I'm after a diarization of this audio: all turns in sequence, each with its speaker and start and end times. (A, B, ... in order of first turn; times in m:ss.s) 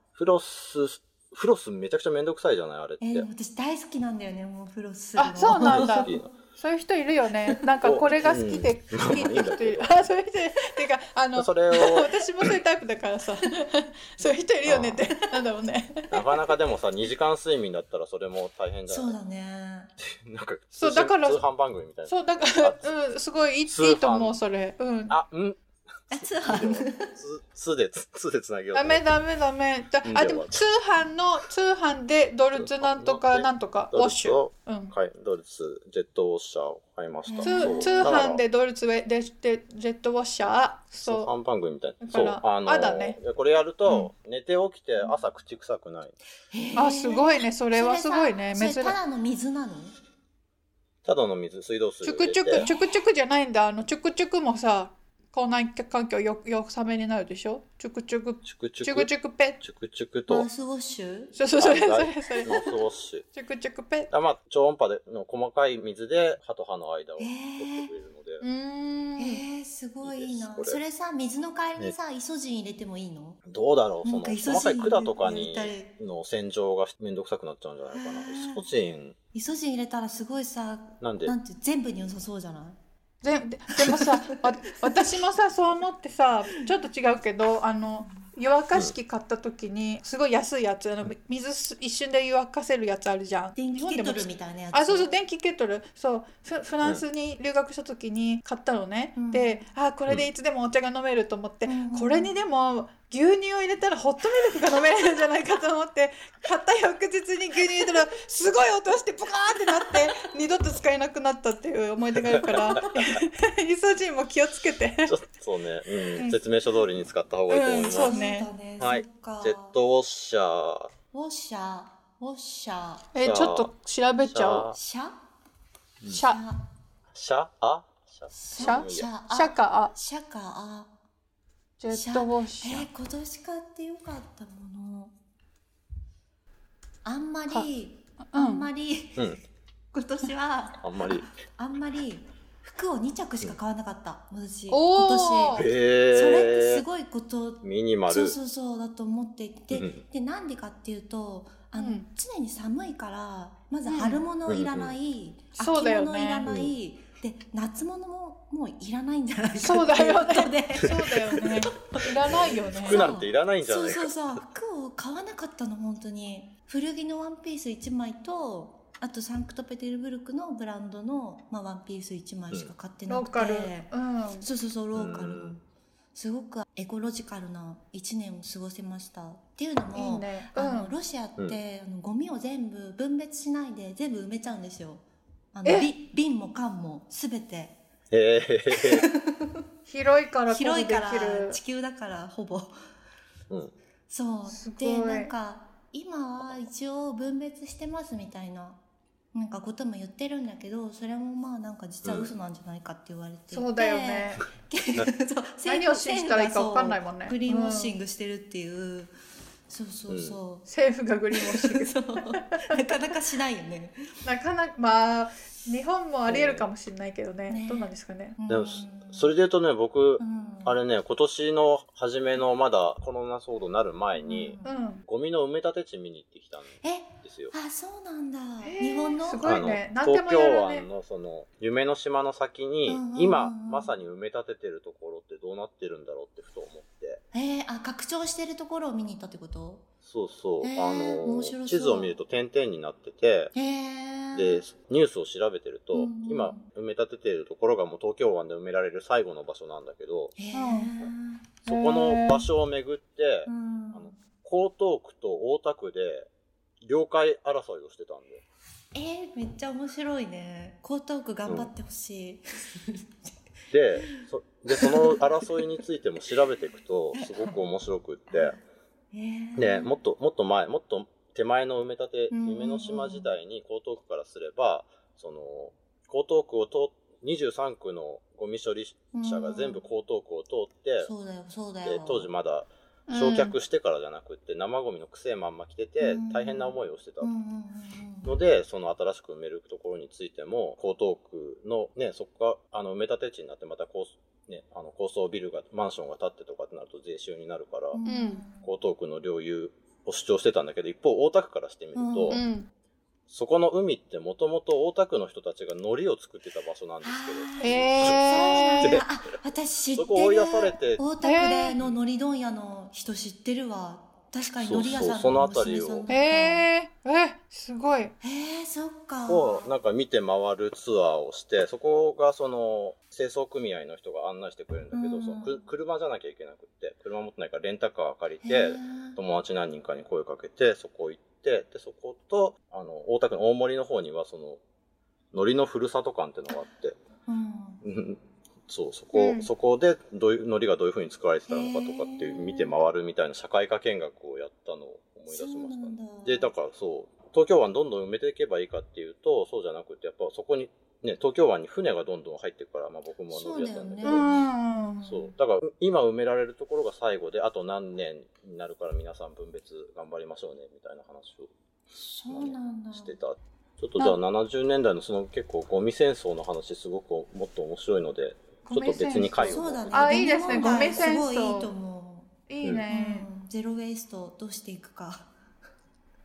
0:00.2-0:03.3 A
0:03.0-0:06.3 B
0:05.2-0:16.2 C
0:05.6-0:06.3 A
0:07.8-0:09.9 A
0:11.4-0:12.6 A
0:14.6-0:15.0 A
0:16.1-0:19.2 A
0:18.9-0:19.9 B
0:20.0-0:22.9 A
0:20.7-0:21.4 C
0:22.1-0:25.2 C
0:23.6-0:24.4 A
0:25.1-0:29.2 A
0:26.1-0:27.1 B
0:28.7-0:34.9 C
0:30.0-0:30.7 A
0:32.5-0:38.4 A
0:37.3-0:38.2 B
0:37.4-0:41.3 C
0:41.0-0:46.2 A
0:42.0-0:43.2 C
0:46.5-0:50.0 B
0:46.8-0:49.0 C
0:51.0-0:52.7 A
0:52.0-0:59.6 C
0:52.6-0:53.0 B
0:58.4-1:00.5 A
1:00.3-1:01.5 B
1:01.3-1:02.8 C
1:01.6-1:03.3 A
1:03.3-1:04.1 C
1:04.1-1:08.4 A
1:07.2-1:07.9 B
1:08.4-1:09.4 C
1:09.2-1:13.4 B
1:10.0-1:10.8 A
1:13.5-1:19.2 A
1:14.0-1:15.9 B
1:17.9-1:18.7 B
1:19.3-1:22.8 B
1:21.0-1:21.4 A
1:23.2-1:55.1 C
1:23.8-1:24.4 B
1:33.6-1:35.1 B
1:39.2-1:39.7 B
1:41.6-1:42.4 B
1:52.2-1:52.8 A
1:55.0-1:58.2 A
1:56.1-1:56.4 C
1:57.5-1:58.5 C
1:57.7-1:59.8 B
1:58.8-2:00.9 A
2:01.1-2:03.2 B
2:03.1-2:04.7 C
2:03.2-2:04.8 A
2:04.7-2:05.1 B
2:06.1-2:06.4 C
2:06.2-2:06.7 B
2:07.1-2:09.1 A
2:08.3-2:11.0 B
2:08.6-2:10.0 C
2:11.8-2:12.9 C
2:11.9-2:15.1 B
2:17.0-2:19.3 B
2:18.2-2:18.7 C
2:19.2-2:19.4 A
2:19.9-2:55.6 B
2:20.8-2:21.3 A
2:24.7-2:25.7 C
2:25.5-2:26.8 A
2:27.6-2:28.4 A
2:29.7-2:30.0 A
2:31.8-2:32.1 C
2:33.9-2:34.2 C
2:34.4-2:35.0 A
2:35.6-2:36.5 C
2:36.4-2:36.8 A
2:39.6-2:43.1 C
2:42.3-2:44.4 A
2:53.1-2:54.5 C
2:54.9-2:55.6 A
2:56.1-3:07.8 B
2:59.9-3:01.0 C
3:05.6-3:05.9 C
3:08.1-3:09.1 A
3:08.7-3:09.6 B
3:09.9-3:11.6 C
3:10.5-3:12.7 B
3:14.1-3:18.8 B
3:14.4-3:15.3 C
3:19.3-3:29.1 B
3:22.0-3:22.3 A
3:23.5-3:24.5 C
3:25.6-3:28.0 C
3:29.7-3:30.7 B
3:30.1-3:30.4 A
3:30.7-3:33.0 C
3:31.3-3:34.0 B
3:34.2-3:38.4 C
3:36.3-3:36.7 A
3:37.5-3:39.3 B
3:38.5-3:47.6 A
3:40.2-3:40.8 B
3:44.2-3:44.8 B
3:44.6-3:45.0 C
3:46.8-3:49.6 B
3:48.6-3:50.9 C
3:49.4-3:57.2 A
3:52.9-3:54.0 B
3:57.3-3:59.9 B
4:00.0-4:03.5 A
4:00.6-4:02.2 B
4:03.5-4:04.6 B
4:04.3-4:10.3 A
4:05.9-4:06.7 B
4:10.4-4:11.6 B
4:10.5-4:10.9 C
4:11.7-4:12.5 C
4:11.7-4:16.3 A
4:13.5-4:14.2 B
4:16.8-4:18.4 A
4:18.9-4:23.1 B
4:21.5-4:21.7 A
4:23.7-4:28.6 A
4:24.0-4:25.5 B
4:27.1-4:27.6 B
4:28.3-4:28.6 B
4:29.1-4:29.9 B
4:29.6-4:41.1 A
4:32.3-4:33.3 B
4:39.1-4:39.8 B
4:41.0-4:42.3 B
4:41.8-4:47.3 A
4:43.1-4:43.6 C
4:46.0-4:48.4 B
4:48.2-4:58.0 A
4:57.9-4:58.7 B
4:58.0-4:58.4 C
4:58.6-5:02.4 A
5:01.9-5:02.4 B
5:02.3-5:02.7 C
5:03.3-5:09.1 A
5:07.0-5:16.7 B
5:07.6-5:09.0 C
5:09.9-5:11.0 A
5:11.2-5:11.8 C
5:14.6-5:16.1 A
5:16.1-5:18.1 C
5:18.2-5:19.7 B
5:19.3-5:34.6 A
5:24.9-5:25.6 B
5:28.4-5:29.2 B
5:35.3-5:37.0 A
5:37.3-5:37.8 B
5:37.8-5:54.4 A
5:39.1-5:39.5 C
5:41.5-5:42.8 B
5:45.3-5:46.5 B
5:53.3-5:55.3 B
5:54.0-5:55.0 C
5:55.1-6:01.5 A
6:02.0-6:03.1 B
6:02.3-6:11.1 A
6:08.7-6:11.7 C
6:09.4-6:15.3 B
6:12.5-6:13.3 C
6:12.6-6:12.9 A